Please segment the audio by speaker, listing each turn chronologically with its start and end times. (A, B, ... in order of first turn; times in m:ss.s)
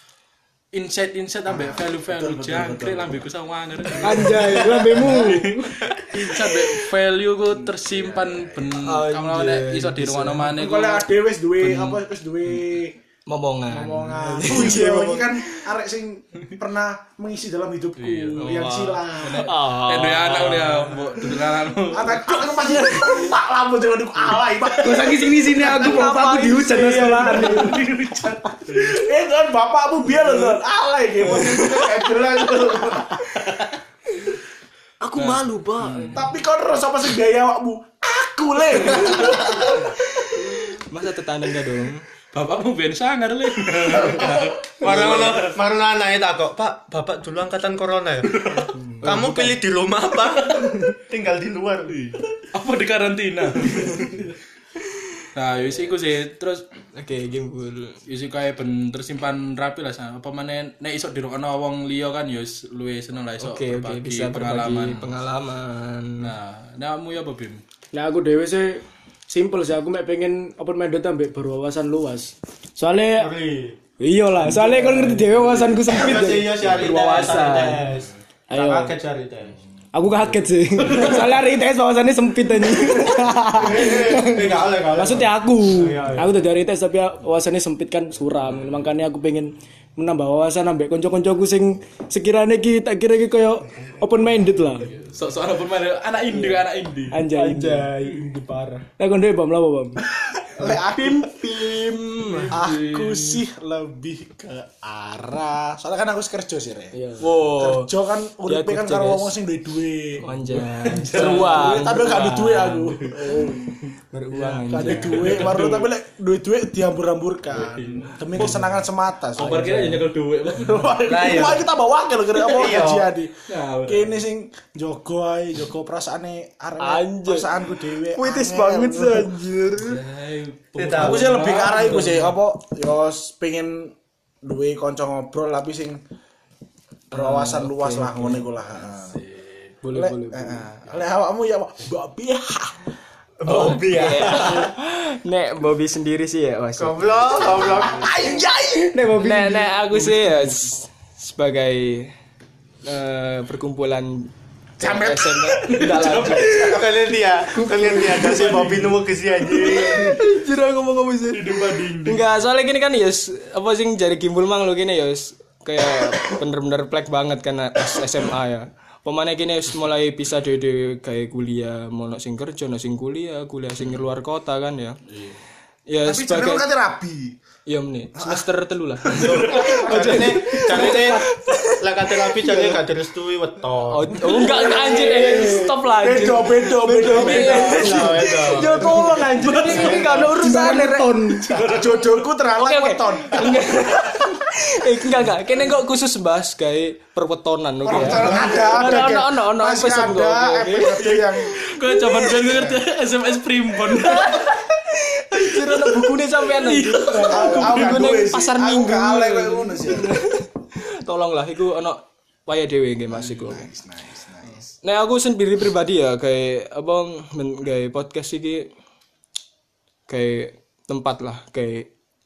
0:00.7-0:12.8 A
0:01.5-0:03.2 B
0:04.0-0:05.8 C
0:07.6-0:08.7 B
0:08.8-0:10.6 D
0:10.5-0:12.9 B
0:13.2-0:15.7 D
0:13.7-0:19.5 B
0:18.0-0:18.6 A
0:18.4-0:20.7 D
0:19.2-0:22.4 A
0:21.9-0:25.7 B
0:24.8-0:27.8 C
0:25.6-0:27.8 D
0:27.3-0:33.2 B
0:27.7-0:29.0 A
0:31.2-0:31.9 D
0:35.0-0:36.2 D
0:35.1-0:36.2 A
0:36.1-0:40.5 B
0:40.6-0:42.0 D
0:42.3-0:45.6 A
0:44.0-0:52.0 E
0:48.3-0:48.7 A
0:48.7-0:49.6 D
0:51.9-0:54.3 A
0:55.3-0:56.6 A
0:56.9-0:58.0 D
0:58.1-1:05.1 A
1:03.4-1:06.3 D
1:06.2-1:07.6 A
1:07.9-1:13.3 C
1:13.2-1:13.8 E
1:14.0-1:17.8 C
1:14.3-1:15.7 D
1:15.9-1:19.6 E
1:16.8-1:17.8 D
1:18.5-1:18.9 C
1:19.9-1:34.9 C
1:20.8-1:21.3 A
1:23.6-1:26.4 E
1:34.9-1:37.2 A
1:37.1-1:38.3 C
1:37.3-1:38.8 D
1:39.0-1:40.0 C
1:40.4-1:41.3 B
1:40.6-1:42.6 D
1:42.2-1:43.4 A
1:42.5-1:50.3 B
1:47.2-1:47.5 A
1:47.2-1:47.9 D
1:48.5-1:49.3 D
1:50.2-1:52.8 D
1:50.6-1:53.2 A
1:51.1-1:53.8 B
1:54.1-1:55.6 D
1:54.3-1:59.7 B
1:54.8-1:55.9 A
1:57.5-2:01.6 A
1:59.4-2:00.0 D
2:00.6-2:09.4 B
2:01.0-2:01.6 E
2:02.4-2:03.1 E
2:03.5-2:04.2 A
2:06.8-2:07.5 D
2:08.1-2:10.0 D
2:09.8-2:12.4 A
2:10.8-2:11.5 E
2:10.9-2:16.0 B
2:17.1-2:18.4 D
2:17.1-2:19.2 B
2:19.0-2:19.6 A
2:19.8-2:20.6 C
2:19.9-2:22.8 B
2:23.4-2:24.7 E
2:23.4-2:27.8 D
2:26.8-2:28.3 E
2:27.6-2:29.1 B
2:28.9-2:29.8 C
2:29.2-2:32.1 D
2:32.8-2:36.7 D
2:34.8-2:36.8 B
2:35.6-2:36.8 A
2:36.5-2:40.2 E
2:37.8-2:39.0 A
2:39.6-2:55.0 D
2:41.3-2:42.3 A
2:55.1-2:55.4 A
2:55.9-2:56.7 D
2:56.0-2:57.4 B
2:57.6-3:02.7 D
2:58.1-2:58.4 B
2:59.1-3:00.3 B
2:59.1-3:04.2 E
2:59.2-2:59.7 A
3:00.8-3:01.1 C
3:03.9-3:11.4 D
3:04.2-3:08.2 C
3:04.3-3:08.9 B
3:07.1-3:09.1 E
3:08.8-3:11.5 C
3:09.3-3:10.3 A
3:09.7-3:10.2 B
3:11.4-3:12.2 A
3:11.5-3:11.8 E
3:11.6-3:14.2 B
3:12.5-3:21.1 D
3:17.8-3:21.6 B
3:18.2-3:19.5 C
3:20.9-3:24.6 A
3:22.0-3:22.6 D
3:22.5-3:22.8 B
3:24.0-3:33.7 D
3:26.6-3:27.6 A
3:27.1-3:27.6 C
3:27.2-3:30.2 B
3:33.1-3:34.7 B
3:34.8-3:38.7 D
3:40.1-3:41.9 D